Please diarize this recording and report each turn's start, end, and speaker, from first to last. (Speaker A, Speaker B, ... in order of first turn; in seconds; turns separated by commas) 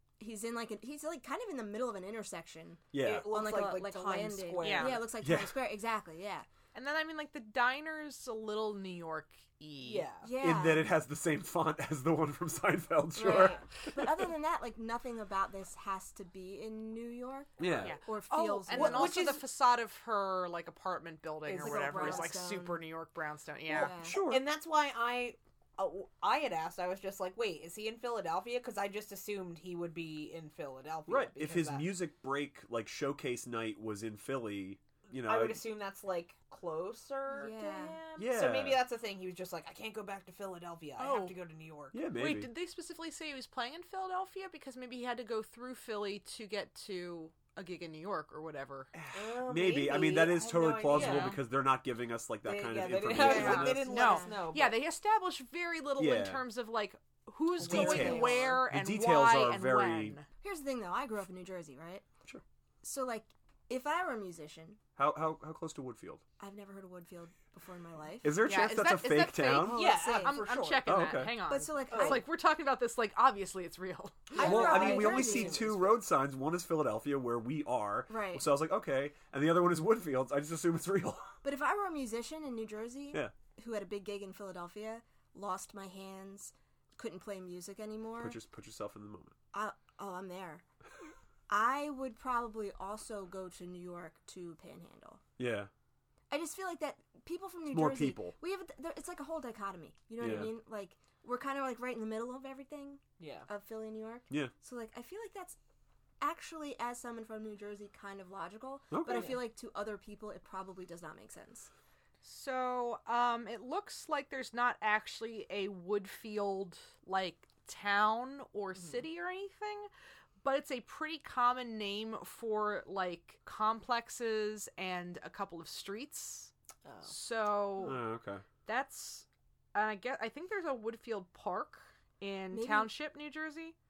Speaker A: 0.2-6.5, Speaker B: 2.9-3.3, Speaker C: 3.0-5.1, Speaker D: 4.6-5.0, Speaker B: 5.2-5.5, Speaker D: 6.7-10.1, Speaker C: 9.8-10.3, Speaker A: 10.2-10.9, Speaker B: 10.4-13.6, Speaker A: 13.2-19.3, Speaker B: 17.6-18.0, Speaker D: 17.8-23.9, Speaker C: 18.7-19.4, Speaker C: 21.4-22.4, Speaker A: 21.6-22.8, Speaker A: 23.7-24.2, Speaker C: 23.7-31.9, Speaker B: 24.0-24.4, Speaker B: 31.1-35.6, Speaker C: 35.2-42.0, Speaker A: 37.3-38.0, Speaker B: 38.2-38.8, Speaker D: 41.0-41.4, Speaker B: 41.9-42.5, Speaker D: 42.1-48.9, Speaker B: 48.9-53.9, Speaker C: 49.1-51.4, Speaker D: 50.9-51.4, Speaker C: 52.4-54.8, Speaker D: 53.1-60.2, Speaker A: 53.2-54.5, Speaker B: 56.0-56.4, Speaker C: 57.5-58.6, Speaker B: 57.6-60.2, Speaker A: 60.4-62.0, Speaker A: 62.8-64.8, Speaker B: 65.0-66.2, Speaker A: 66.4-68.4, Speaker B: 68.2-69.8, Speaker D: 68.4-74.4, Speaker A: 69.6-70.4, Speaker C: 69.7-70.9, Speaker B: 70.8-71.4, Speaker A: 71.4-72.3, Speaker C: 71.9-72.2, Speaker A: 74.3-75.7, Speaker C: 74.3-76.0, Speaker B: 74.4-81.3, Speaker A: 78.1-78.5, Speaker A: 81.4-88.4, Speaker B: 88.2-89.3, Speaker A: 89.5-90.6, Speaker A: 91.5-95.2, Speaker B: 95.4-95.7, Speaker A: 96.3-105.6, Speaker B: 97.7-98.3, Speaker B: 100.2-100.5, Speaker C: 103.2-103.5, Speaker A: 106.2-111.7, Speaker B: 108.9-109.4, Speaker C: 109.0-109.4, Speaker D: 112.2-119.9, Speaker C: 118.8-119.0, Speaker D: 120.4-126.5, Speaker C: 126.8-127.1, Speaker D: 127.1-128.0, Speaker B: 127.8-128.4, Speaker D: 128.7-133.7, Speaker A: 132.5-132.9